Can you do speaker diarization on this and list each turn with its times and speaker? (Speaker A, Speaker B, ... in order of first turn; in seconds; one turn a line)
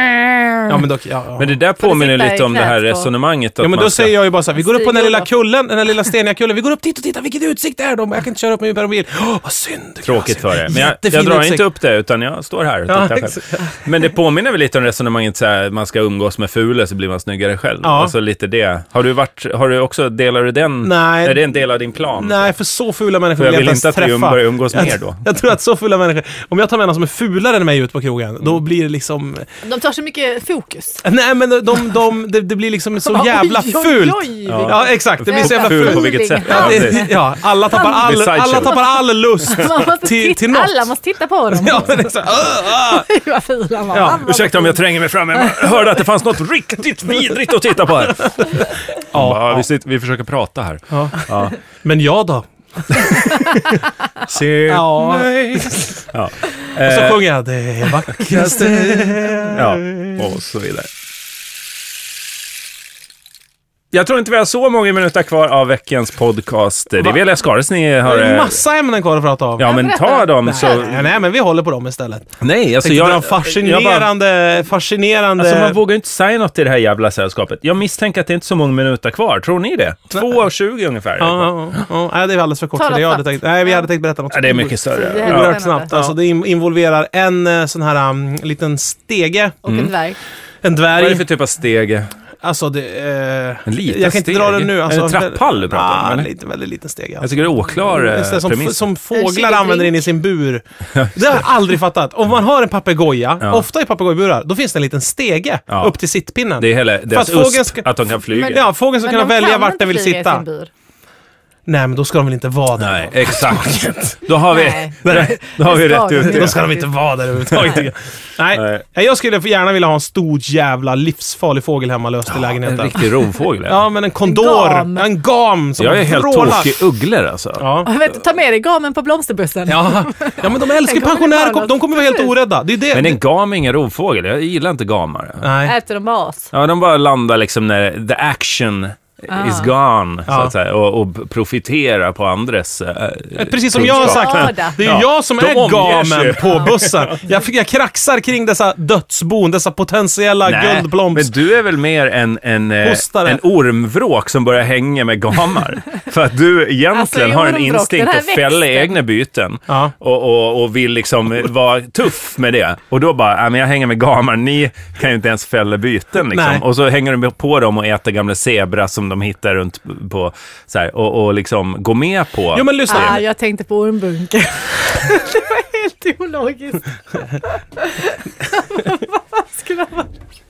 Speaker A: 0.1-0.5
Speaker B: 0.7-1.5
Speaker C: 1.4-4.2
Speaker A: 1.8-3.1
Speaker B: 3.6-11.6
Speaker A: 4.5-5.3
Speaker C: 10.1-22.5
Speaker B: 12.9-13.7
Speaker B: 17.8-18.1
Speaker B: 20.8-21.4
Speaker B: 22.2-29.5
Speaker C: 23.4-25.2
Speaker A: 29.6-31.0
Speaker B: 31.0-40.9
Speaker A: 33.0-37.1
Speaker C: 34.5-38.8
Speaker A: 37.7-44.8
Speaker B: 41.5-43.1
Speaker B: 43.9-44.3
Speaker C: 44.0-51.6
Speaker A: 45.4-45.7
Speaker B: 49.1-49.7
Speaker B: 50.9-51.3
Speaker B: 51.8-53.8
Speaker C: 54.2-57.2
Speaker B: 54.7-56.0
Speaker B: 56.8-60.3
Speaker C: 58.1-60.9
Speaker C: 63.9-68.6
Speaker B: 68.0-69.7
Speaker C: 69.6-71.0
Speaker A: 69.6-71.0
Speaker B: 70.4-75.8
Speaker C: 72.4-74.1
Speaker C: 75.4-81.5
Speaker B: 81.2-89.6
Speaker A: 82.8-83.8
Speaker C: 84.3-86.1
Speaker A: 84.9-85.9
Speaker A: 89.7-90.2
Speaker C: 89.7-89.9
Speaker B: 90.6-91.3
Speaker C: 90.9-92.1
Speaker B: 92.4-97.3
Speaker C: 93.7-96.3
Speaker C: 97.2-98.9
Speaker B: 97.9-100.6
Speaker A: 99.1-100.1
Speaker C: 101.0-101.4
Speaker B: 101.1-110.4
Speaker C: 105.7-106.0
Speaker C: 106.6-108.7
Speaker A: 109.0-110.7
Speaker B: 111.7-114.3
Speaker C: 112.8-116.7
Speaker A: 114.5-116.9
Speaker B: 115.1-115.3
Speaker B: 116.2-123.1
Speaker C: 117.4-117.9
Speaker C: 118.5-118.8
Speaker C: 122.3-123.8
Speaker B: 123.7-126.7
Speaker A: 124.2-125.1
Speaker C: 125.8-127.7
Speaker B: 127.6-127.9
Speaker A: 127.8-132.3
Speaker B: 129.7-133.2
Speaker C: 132.9-135.5
Speaker B: 135.4-135.7
Speaker A: 135.6-136.5
Speaker C: 136.5-147.2
Speaker A: 139.3-139.7
Speaker B: 140.3-140.5
Speaker B: 143.4-151.3
Speaker A: 143.8-144.8
Speaker C: 150.4-173.2
Speaker B: 152.8-153.4
Speaker A: 156.9-158.9
Speaker B: 166.3-166.6
Speaker B: 172.5-173.2
Speaker A: 172.9-180.1